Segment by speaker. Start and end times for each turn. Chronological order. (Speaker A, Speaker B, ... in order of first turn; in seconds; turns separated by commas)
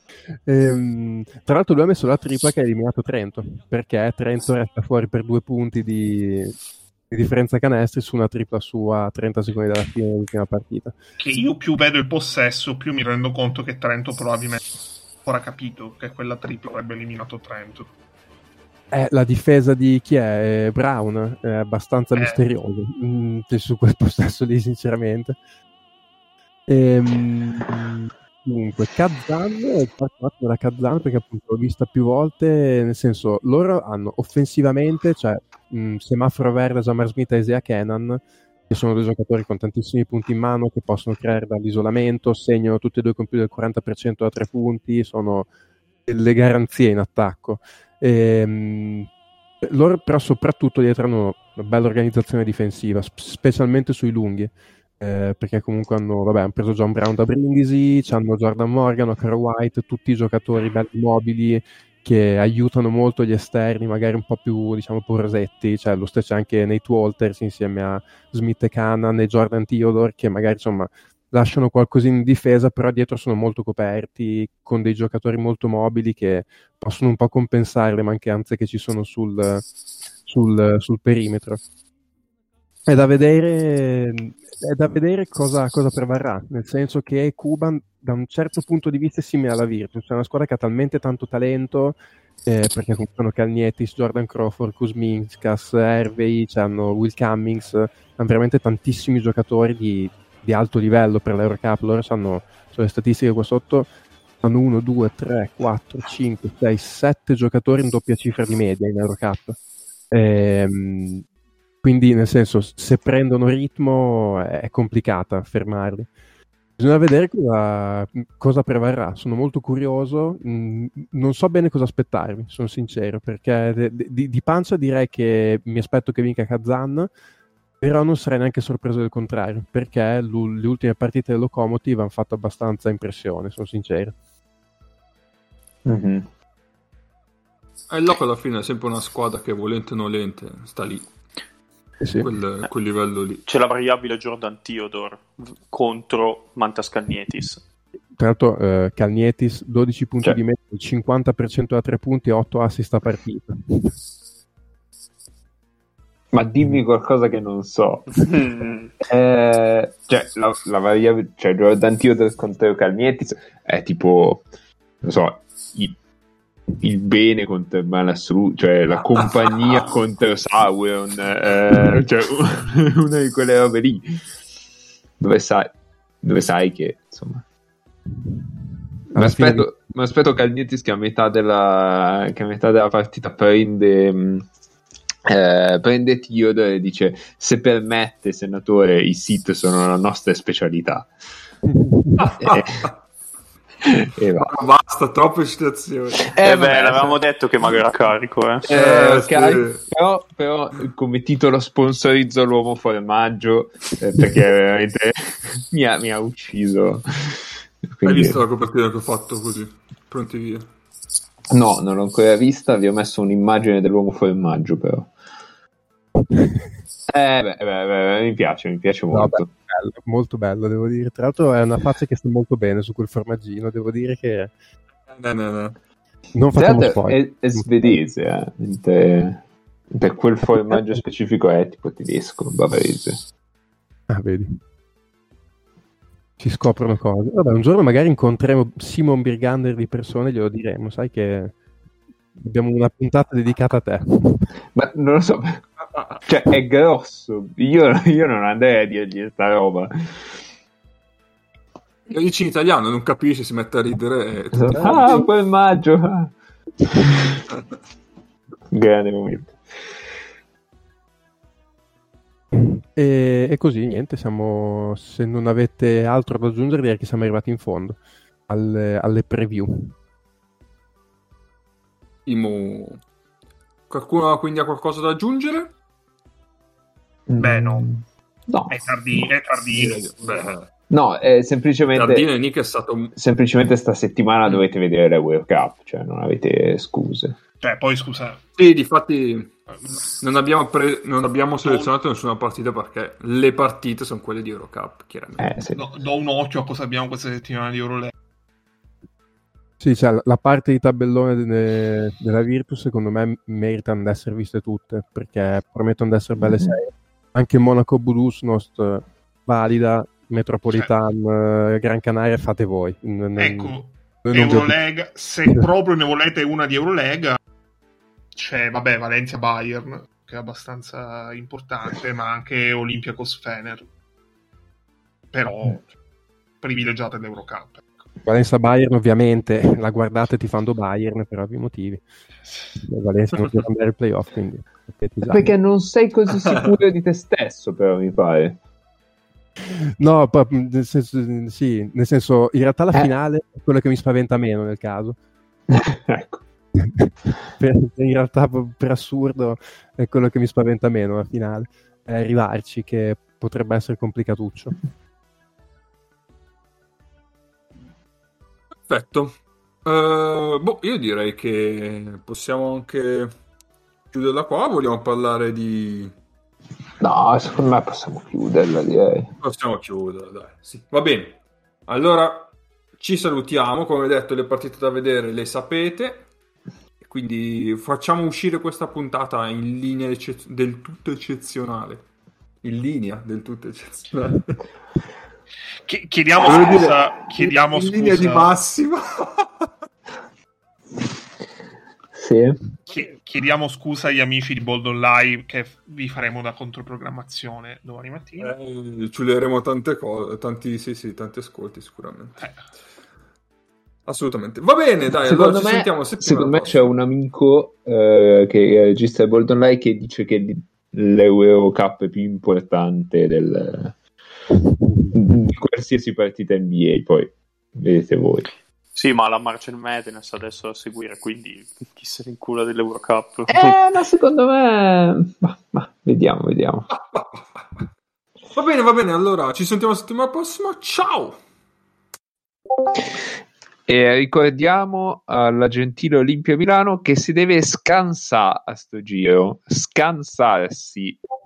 Speaker A: 0.5-6.5, Speaker A: 7.1-10.9, Speaker B: 11.2-14.6, Speaker B: 15.2-17.9, Speaker A: 18.9-25.4, Speaker B: 22.1-22.4, Speaker A: 26.7-45.5, Speaker A: 46.1-49.1, Speaker A: 49.6-79.6, Speaker A: 80.3-81.6, Speaker A: 82.9-103.9, Speaker A: 104.4-109.6, Speaker A: 110.1-111.2, Speaker A: 111.8-116.1, Speaker A: 116.8-127.1, Speaker A: 127.8-134.1, Speaker C: 135.9-136.3, Speaker D: 137.9-141.1, Speaker A: 142.0-142.3, Speaker D: 142.2-143.4, Speaker E: 143.4-147.6, Speaker A: 148.2-154.0, Speaker C: 156.3-158.2, Speaker E: 158.1-158.9, Speaker C: 159.0-164.5, Speaker C: 165.0-166.0, Speaker C: 166.8-174.3, Speaker C: 175.2-177.4, Speaker A: 179.1-179.7, Speaker C: 179.2-184.5, Speaker C: 185.3-191.1, Speaker A: 191.7-192.3, Speaker D: 192.2-192.9, Speaker C: 192.4-192.9, Speaker C: 193.8-194.5, Speaker D: 194.4-196.3, Speaker C: 196.3-197.2, Speaker E: 196.4-198.7, Speaker C: 198.7-208.4, Speaker D: 198.7-199.8, Speaker D: 208.0-210.7, Speaker C: 211.5-215.1, Speaker A: 216.2-216.7, Speaker C: 217.1-219.5, Speaker A: 219.1-224.5, Speaker D: 225.1-225.8, Speaker A: 226.3-227.9, Speaker C: 226.6-233.3, Speaker A: 234.1-234.6, Speaker A: 236.4-241.5, Speaker A: 242.4-244.5, Speaker C: 244.8-245.7, Speaker D: 245.9-246.2, Speaker C: 246.3-250.4, Speaker D: 252.1-255.2, Speaker C: 254.5-256.4, Speaker A: 254.8-255.0, Speaker C: 258.7-259.6, Speaker A: 262.5-268.0, Speaker A: 268.5-269.9, Speaker D: 272.3-273.0, Speaker D: 273.9-275.7, Speaker C: 277.3-278.8, Speaker B: 277.4-277.9, Speaker B: 278.7-280.4, Speaker D: 279.7-280.7, Speaker C: 280.9-282.3, Speaker D: 281.9-283.1, Speaker C: 283.1-287.4, Speaker B: 287.6-288.4, Speaker D: 288.6-295.5, Speaker B: 291.6-291.9, Speaker C: 295.4-295.9, Speaker B: 295.8-298.1, Speaker A: 299.8-314.8, Speaker B: 313.4-317.4, Speaker B: 318.4-323.9, Speaker B: 325.3-325.9, Speaker B: 326.6-328.1, Speaker A: 328.2-332.0, Speaker A: 332.8-335.5, Speaker C: 335.2-338.6, Speaker A: 339.7-345.2, Speaker C: 345.7-346.4, Speaker A: 346.8-354.7, Speaker D: 358.9-363.3, Speaker D: 364.1-366.1, Speaker C: 367.0-369.3, Speaker D: 369.4-376.2, Speaker D: 377.0-382.1, Speaker D: 382.6-384.6, Speaker B: 385.9-388.5, Speaker D: 386.4-389.7, Speaker C: 392.1-392.6, Speaker B: 392.9-398.5, Speaker D: 398.4-402.4, Speaker D: 404.1-406.9, Speaker C: 405.2-414.0, Speaker A: 414.6-415.2, Speaker C: 415.1-418.5, Speaker E: 418.9-423.8, Speaker C: 423.5-426.9, Speaker D: 426.9-427.8, Speaker D: 428.6-431.4, Speaker C: 433.9-441.2